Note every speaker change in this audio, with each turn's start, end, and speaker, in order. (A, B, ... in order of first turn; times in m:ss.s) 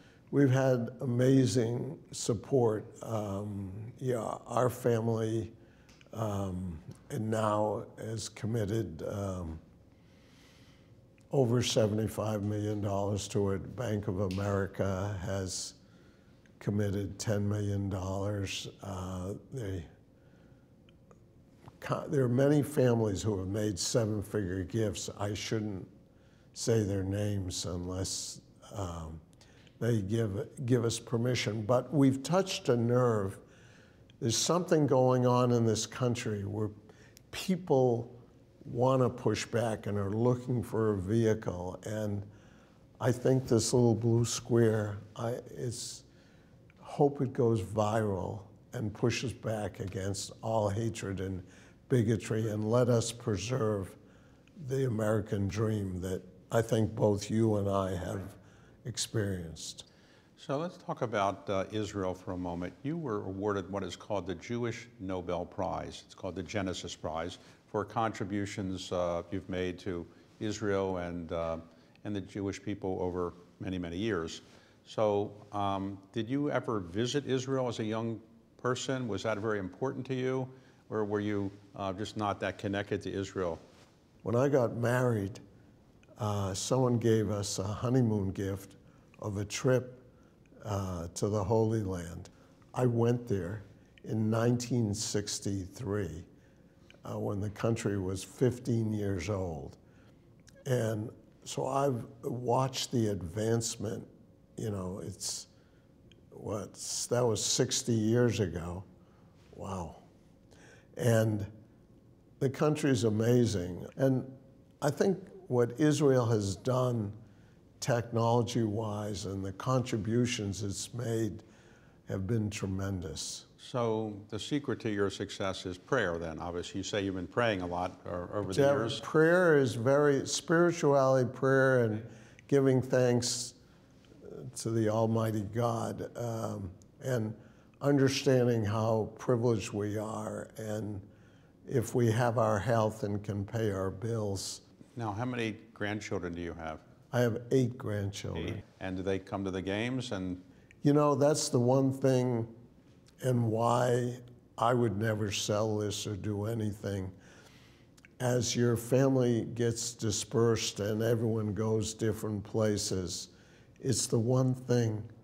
0:00.3-0:05.5 A
0:06.1-0:09.6 A
0:11.3-0:15.8 A
0:16.6-0:19.9 A
0:21.8-0:25.9 A
0:26.5-0:29.2 A
0:29.8-0:33.4 A
0:34.2-0:36.7 A
0:37.3-0:42.3 A
0:43.0-0:46.0 A
0:46.8-0:54.0 A
0:54.6-0:59.8 A
1:00.4-1:23.6 B
1:24.2-1:25.4 A
1:26.2-1:30.0 A
1:30.6-1:36.3 A
1:37.0-1:39.8 A
1:40.6-1:45.5 A
1:46.3-1:48.8 A
1:49.5-1:50.0 A
1:50.9-1:51.5 A
1:52.4-1:57.2 A
1:57.8-2:01.4 A
2:02.1-2:03.4 A
2:03.6-2:09.0 B
2:08.4-2:13.6 A
2:14.2-2:21.0 A
2:21.6-2:24.6 A
2:25.0-2:26.8 B
2:27.1-2:28.6 A
2:28.4-2:30.4 B
2:30.8-2:32.5 A
2:33.2-2:37.1 A
2:38.2-2:45.1 A